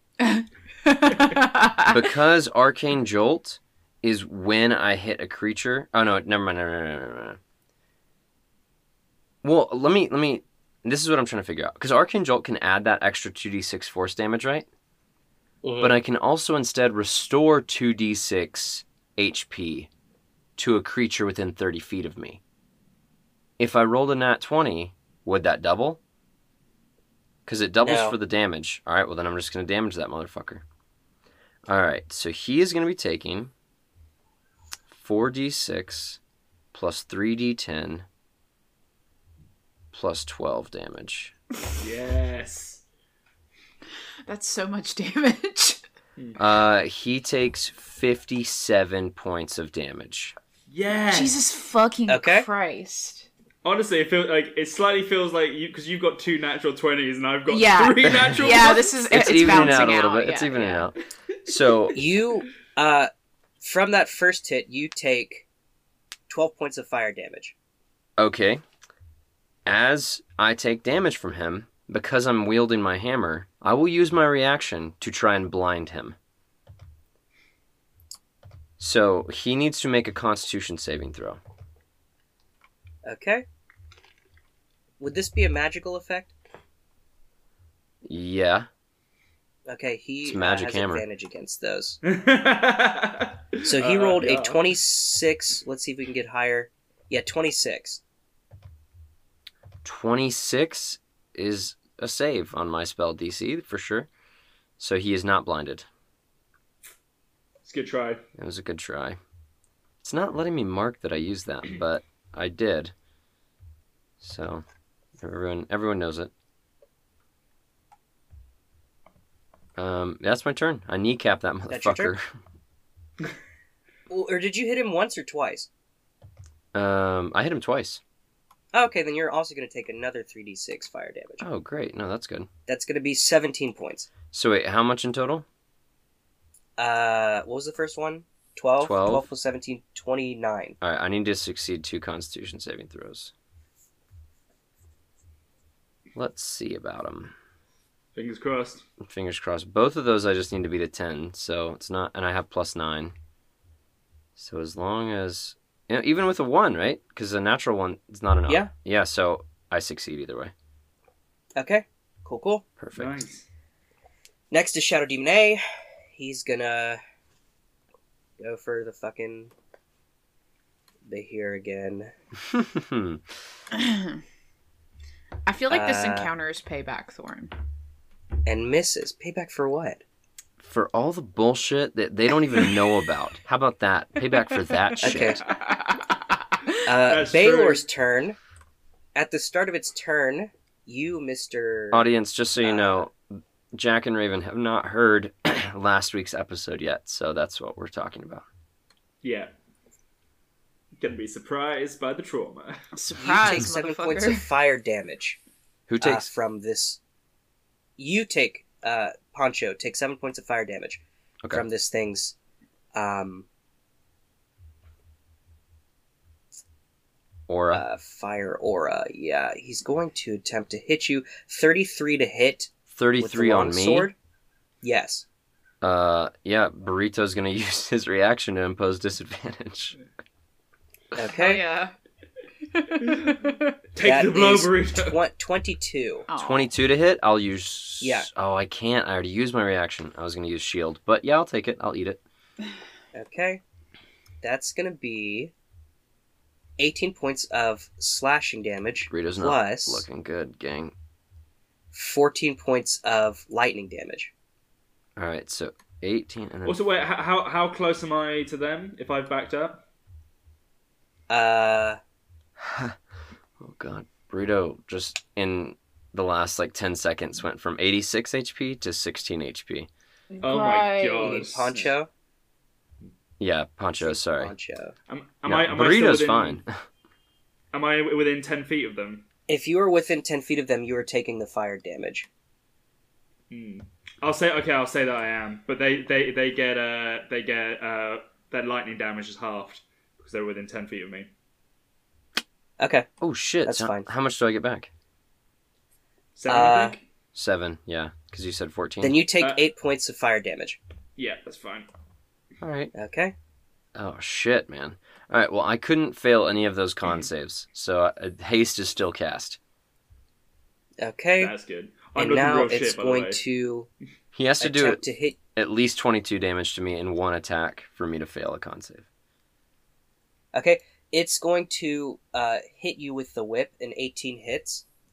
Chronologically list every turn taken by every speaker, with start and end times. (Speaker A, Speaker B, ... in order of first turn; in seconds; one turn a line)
Speaker A: 0.2-2.0
Speaker B: 1.8-7.4
Speaker B: 9.4-14.7
Speaker C: 15.6-15.9
Speaker B: 15.8-19.9
Speaker B: 20.6-22.4
Speaker B: 23.6-26.0
Speaker B: 27.4-30.6
Speaker C: 27.8-28.1
Speaker B: 31.7-33.5
Speaker B: 34.9-36.2
Speaker B: 36.7-38.0
Speaker B: 39.9-41.3
Speaker D: 41.8-42.8
Speaker A: 44.2-45.8
Speaker B: 46.4-50.3
Speaker D: 50.7-51.4
Speaker A: 51.1-53.3
Speaker C: 52.1-52.5
Speaker D: 53.6-59.8
Speaker A: 57.5-60.9
Speaker B: 58.1-58.4
Speaker B: 59.1-62.0
Speaker C: 61.9-63.1
Speaker C: 63.6-65.5
Speaker C: 66.3-67.5
Speaker B: 68.2-68.6
Speaker B: 69.7-76.2
Speaker B: 78.8-81.4
Speaker C: 83.0-83.4
Speaker C: 85.0-86.3
Speaker B: 88.0-88.7
Speaker C: 89.7-92.0
Speaker B: 90.2-91.0
Speaker D: 92.0-94.6
Speaker C: 93.6-98.0
Speaker B: 99.8-104.1
Speaker B: 104.8-105.8
Speaker D: 107.6-108.2
Speaker B: 108.4-109.2
Speaker B: 110.0-112.9
Speaker B: 114.2-114.6
Speaker B: 115.2-116.3
Speaker B: 119.8-122.3
Speaker C: 121.7-122.1
Speaker C: 124.1-125.7
Speaker B: 126.7-128.0
Speaker C: 128.7-131.4
Speaker B: 131.4-132.5
Speaker C: 132.7-134.1
Speaker B: 134.3-135.4
Speaker C: 136.8-140.8
Speaker B: 138.8-139.3
Speaker B: 140.8-143.3
Speaker B: 146.1-147.3
Speaker D: 148.1-148.8
Speaker B: 149.0-153.1
Speaker B: 154.3-160.5
Speaker C: 161.6-162.6
Speaker B: 162.8-163.2
Speaker D: 162.9-163.4
Speaker C: 164.5-165.6
Speaker C: 166.1-167.0
Speaker C: 168.4-169.5
Speaker C: 171.1-172.1
Speaker B: 172.5-173.2
Speaker A: 173.7-174.2
Speaker A: 175.4-177.5
Speaker C: 175.7-176.3
Speaker C: 178.4-180.0
Speaker B: 180.6-185.4
Speaker C: 185.0-185.4
Speaker A: 185.5-186.1
Speaker C: 186.8-188.4
Speaker D: 187.0-187.8
Speaker C: 189.1-192.1
Speaker B: 191.9-198.4
Speaker C: 192.6-193.1
Speaker D: 199.2-199.5
Speaker D: 201.0-202.8
Speaker A: 202.9-204.4
Speaker C: 203.2-205.4
Speaker B: 205.9-206.3
Speaker C: 206.0-207.0
Speaker C: 208.0-212.3
Speaker C: 212.9-213.4
Speaker B: 217.5-217.8
Speaker C: 217.7-224.2
Speaker B: 222.9-224.1
Speaker C: 224.8-225.2
Speaker B: 225.8-229.9
Speaker C: 231.1-231.6
Speaker A: 231.2-231.9
Speaker A: 232.7-233.7
Speaker D: 233.1-233.4
Speaker D: 233.9-235.2
Speaker C: 234.0-236.3
Speaker A: 236.3-236.7
Speaker B: 236.4-242.2
Speaker C: 238.0-238.3
Speaker C: 243.1-243.6
Speaker C: 244.4-245.5
Speaker C: 246.8-250.0
Speaker B: 249.1-250.9
Speaker C: 251.9-254.3
Speaker B: 255.2-256.8
Speaker D: 256.6-259.8
Speaker C: 261.3-262.0
Speaker B: 262.6-263.0
Speaker B: 263.6-269.9
Speaker A: 270.3-271.4
Speaker D: 270.4-271.9
Speaker C: 271.2-272.1
Speaker B: 273.4-274.5
Speaker C: 274.0-274.9
Speaker D: 275.1-276.6
Speaker B: 275.4-276.7
Speaker D: 277.7-279.2
Speaker C: 279.5-282.3
Speaker D: 283.5-291.3
Speaker C: 292.8-293.1
Speaker B: 293.2-294.9
Speaker C: 293.6-294.1
Speaker D: 296.4-297.0
Speaker C: 296.5-297.0
Speaker B: 297.3-299.2
Speaker C: 299.0-300.8
Speaker D: 301.2-301.9
Speaker B: 302.6-302.9
Speaker C: 302.9-303.3
Speaker B: 303.9-309.6
Speaker C: 311.0-311.5
Speaker D: 311.4-313.4
Speaker C: 312.1-313.9
Speaker B: 314.3-315.0
Speaker C: 314.6-315.4
Speaker B: 315.5-319.1
Speaker C: 320.5-324.8